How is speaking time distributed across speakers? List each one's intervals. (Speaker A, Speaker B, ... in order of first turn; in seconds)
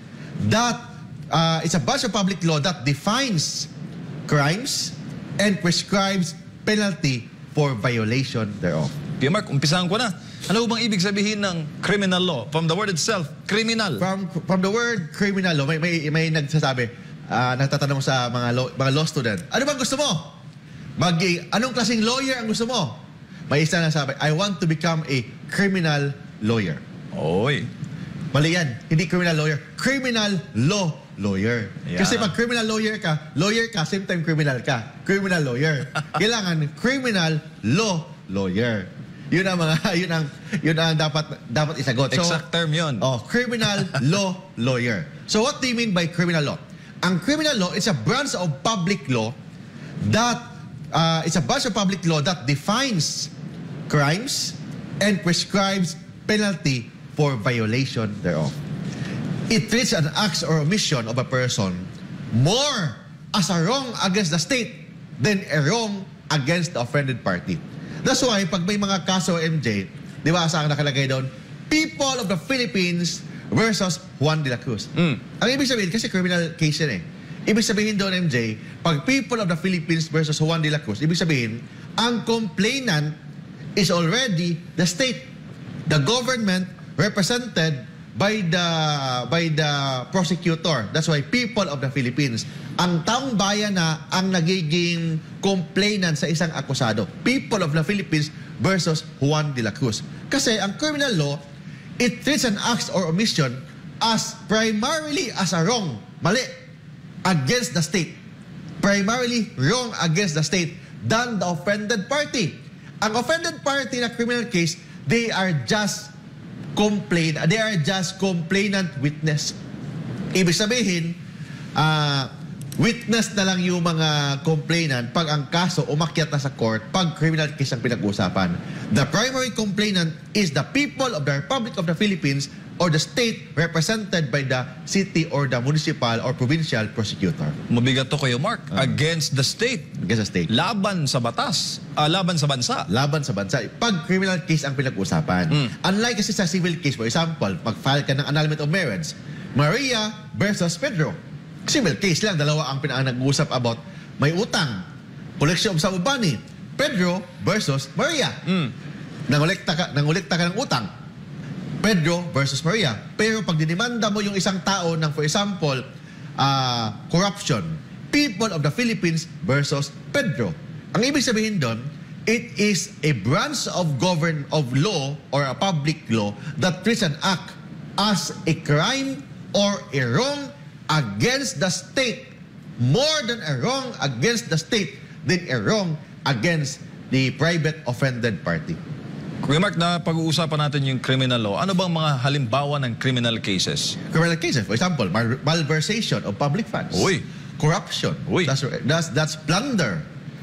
Speaker A: 0.4-3.7, 4.3-8.9, 14.0-20.4, 21.0-23.0, 23.5-26.8, 28.3-42.4, 43.0-49.4, 50.0-53.3, 53.9-58.5, 59.5-83.2, 83.8-85.3, 85.9-101.4, 102.0-106.5, 107.2-108.2, 108.8-116.1, 116.8-119.6, 120.3-121.2, 121.8-137.6, 140.0-140.5, 142.9-154.8, 155.4-158.5, 159.3-160.9, 161.8-165.8, 166.4-188.8, 194.1-200.0
Speaker B: 9.2-14.0, 27.1-27.7, 31.9-32.3, 42.1-43.1, 137.7-140.0, 140.5-142.9, 189.4-194.0, 196.9-197.2